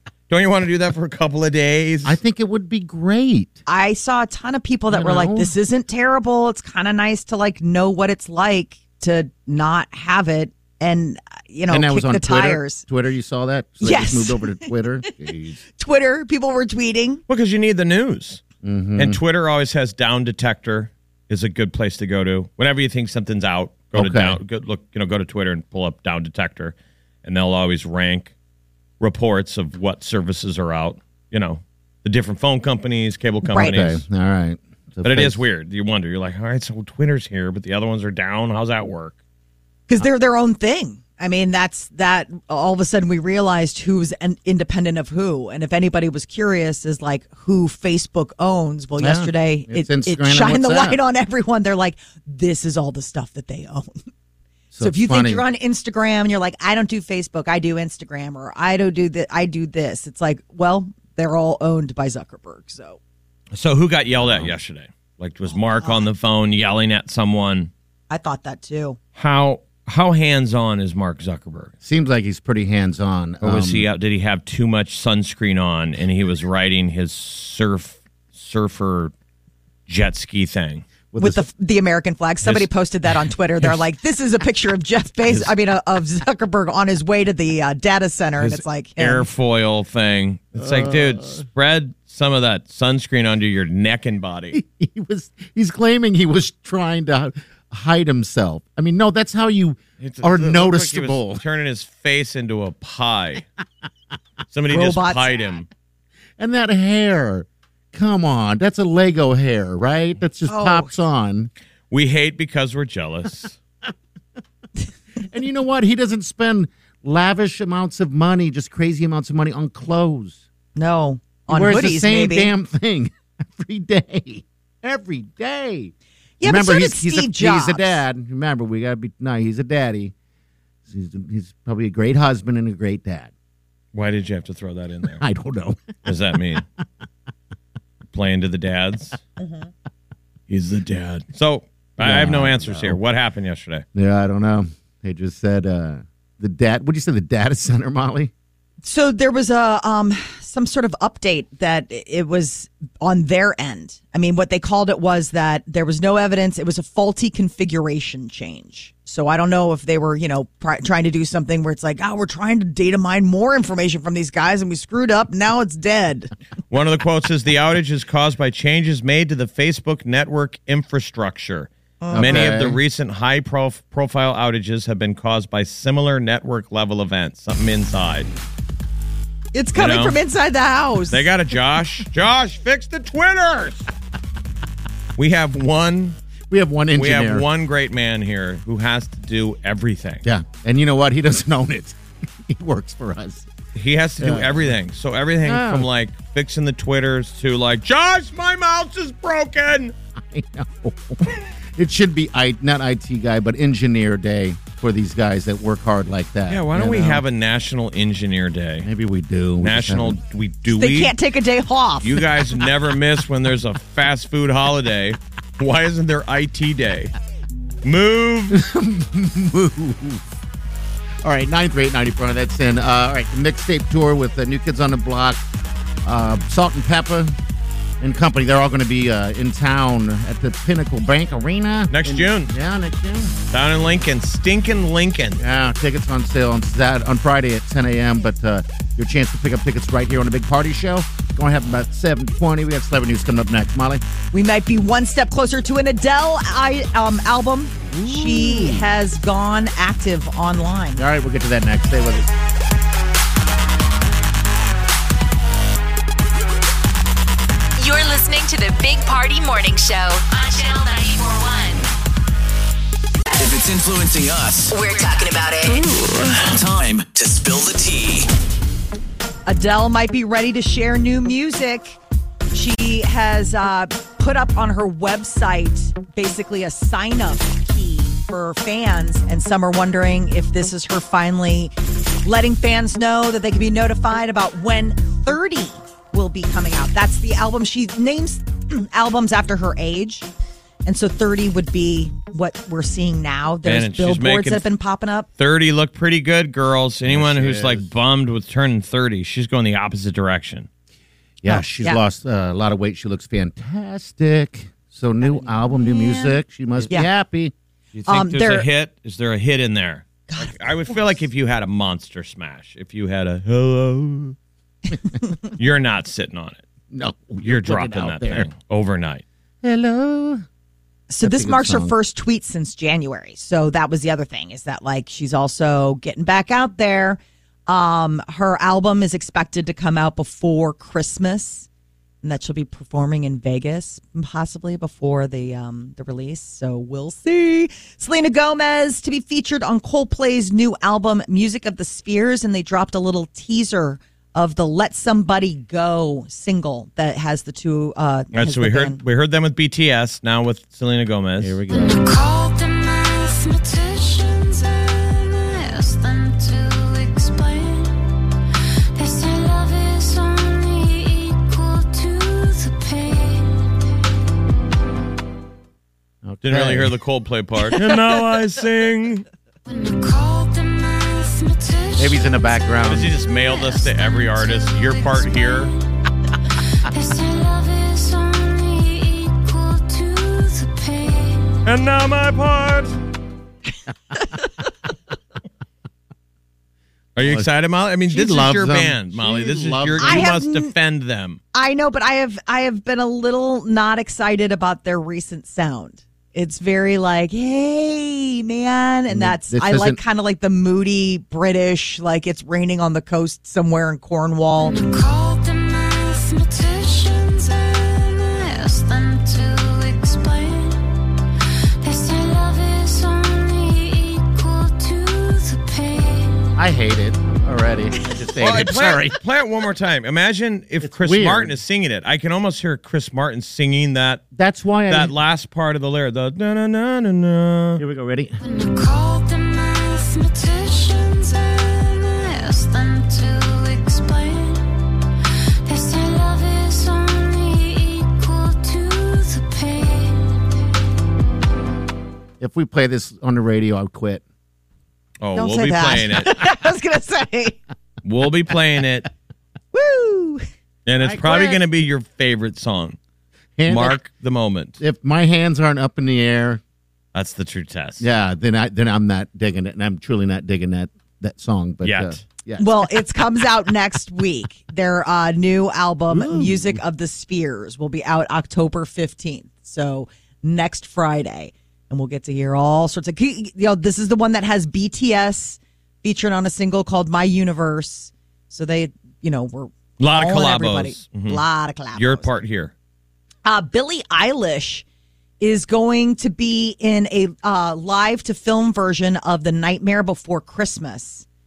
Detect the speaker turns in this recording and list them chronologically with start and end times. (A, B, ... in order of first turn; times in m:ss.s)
0:00.3-0:02.2 A
0:02.0-0:03.6 B
0:03.7-0:12.8 C
0:04.9-0:05.5 B
0:11.7-0:15.6 B
0:13.8-0:14.7 C
0:15.8-0:17.2 C
0:17.3-0:18.4 A
0:18.6-0:19.2 B
0:19.0-0:28.3 A
0:23.9-0:24.4 B
0:29.0-0:34.0 A
0:33.5-0:33.8 C
0:33.6-0:35.4 B
0:35.0-0:39.2 A
0:39.9-0:54.0 C
0:49.0-0:51.0 B
0:54.7-0:55.4 B
0:54.8-1:03.0 C
1:03.5-1:07.7 A
1:04.2-1:04.5 B
1:05.6-1:06.0 C
1:08.1-1:09.0 C
1:09.2-1:11.7 A
1:11.8-1:13.9 B
1:13.4-1:19.1 A
1:19.9-1:20.8 A
1:21.1-1:21.5 B
1:21.2-1:29.3 C
1:28.4-1:34.6 A
1:30.6-1:31.4 B
1:34.5-1:41.4 B
1:40.0-1:43.5 A
1:44.5-1:45.7 A
1:44.7-1:45.6 C
1:46.4-1:51.5 B
1:50.5-1:50.9 C
1:51.9-1:53.6 A
1:55.2-2:00.4 B
2:00.8-2:02.5 C
2:01.5-2:10.1 B
2:06.4-2:08.0 C
2:10.9-2:13.3 B
2:13.9-2:15.2 A
2:15.1-2:16.1 B
2:16.0-2:16.6 A
2:18.1-2:19.2 A
2:19.4-2:19.7 C
2:20.5-2:23.8 A
2:22.0-2:23.0 B
2:24.0-2:28.3 B
2:28.8-2:46.3 C
2:46.7-2:58.3 A
2:52.0-2:52.5 C
2:52.1-2:52.8 B
2:59.5-3:01.3 C
2:59.8-3:00.2 A
3:01.1-3:03.9 A
3:05.2-3:06.2 A
3:06.5-3:07.4 B
3:07.0-3:10.2 A
3:10.2-3:13.5 B
3:13.8-3:19.9 A
3:14.2-3:14.7 B
3:15.4-3:15.9 B
3:20.2-3:27.2 B
3:26.5-3:28.9 A
3:28.8-3:30.2 B
3:29.6-3:31.1 A
3:30.7-3:32.3 C
3:32.0-3:37.1 A
3:37.8-3:38.6 A
3:38.5-3:40.2 B
3:41.2-3:45.4 B
3:46.0-3:47.4 B
3:48.0-3:53.3 B
3:51.9-3:52.5 A
3:53.5-3:55.4 A
3:55.4-4:04.0 B
4:04.3-4:11.0 C
4:07.9-4:08.9 B
4:11.0-4:12.3 B
4:17.8-4:21.9 D
4:23.4-4:24.8 E
4:24.7-4:25.8 D
4:25.9-4:28.3 E
4:29.5-4:32.0 C
4:32.5-4:41.7 C
4:42.2-4:50.3 C
4:50.8-4:55.3 C
4:53.6-4:54.7 A
4:55.4-5:00.7 A
4:57.1-4:57.9 B
5:01.4-5:07.5 B
5:01.5-5:02.0 C
5:05.2-5:06.3 C
5:08.0-5:14.4 A
5:08.1-5:08.7 C
5:15.5-5:16.6 A
5:16.9-5:18.5 B
5:17.4-5:19.2 A
5:19.6-5:20.4 B
5:21.1-5:31.7 C
5:21.2-5:21.9 B
5:32.2-5:49.0 C
5:48.3-5:51.6 A
5:51.4-5:52.2 B
5:51.9-5:54.3 F
5:55.5-5:57.7 F
5:59.0-6:03.5 F
6:06.2-6:07.0 B
6:06.4-6:09.2 A
6:09.7-6:12.0 F
6:12.0-6:13.2 B
6:12.9-6:15.7 A
6:17.0-6:21.5 F
6:21.6-6:23.0 A
6:27.2-6:31.4 A
6:27.2-6:27.5 B
6:28.1-6:30.3 B
6:30.0-6:30.7 C
6:31.5-6:44.8 C
6:39.1-6:40.0 B
6:44.8-6:47.6 F
6:48.3-6:50.7 F
6:51.8-6:56.3 F
6:56.6-6:59.2 B
6:58.4-7:04.2 A
7:00.8-7:01.6 B
7:04.4-7:05.1 B
7:04.9-7:07.8 A
7:07.8-7:08.4 B
7:08.5-7:11.5 F
7:12.1-7:14.6 F
7:15.7-7:20.2 F
7:22.4-7:24.2 B
7:25.2-7:26.3 A
7:25.4-7:27.6 C
7:28.0-7:29.1 A
7:29.7-7:30.4 C
7:30.9-7:33.0 A
7:31.0-7:31.6 B
7:33.6-7:34.0 B
7:33.7-7:34.8 A
7:34.8-7:36.6 B
7:37.1-7:38.1 A
7:38.0-7:42.8 B
7:41.8-7:42.2 A
7:42.6-8:02.3 C
7:46.1-7:46.7 B
8:00.0-8:01.4 A
8:01.9-8:02.7 A
8:03.4-8:04.8 C
8:05.4-8:11.2 C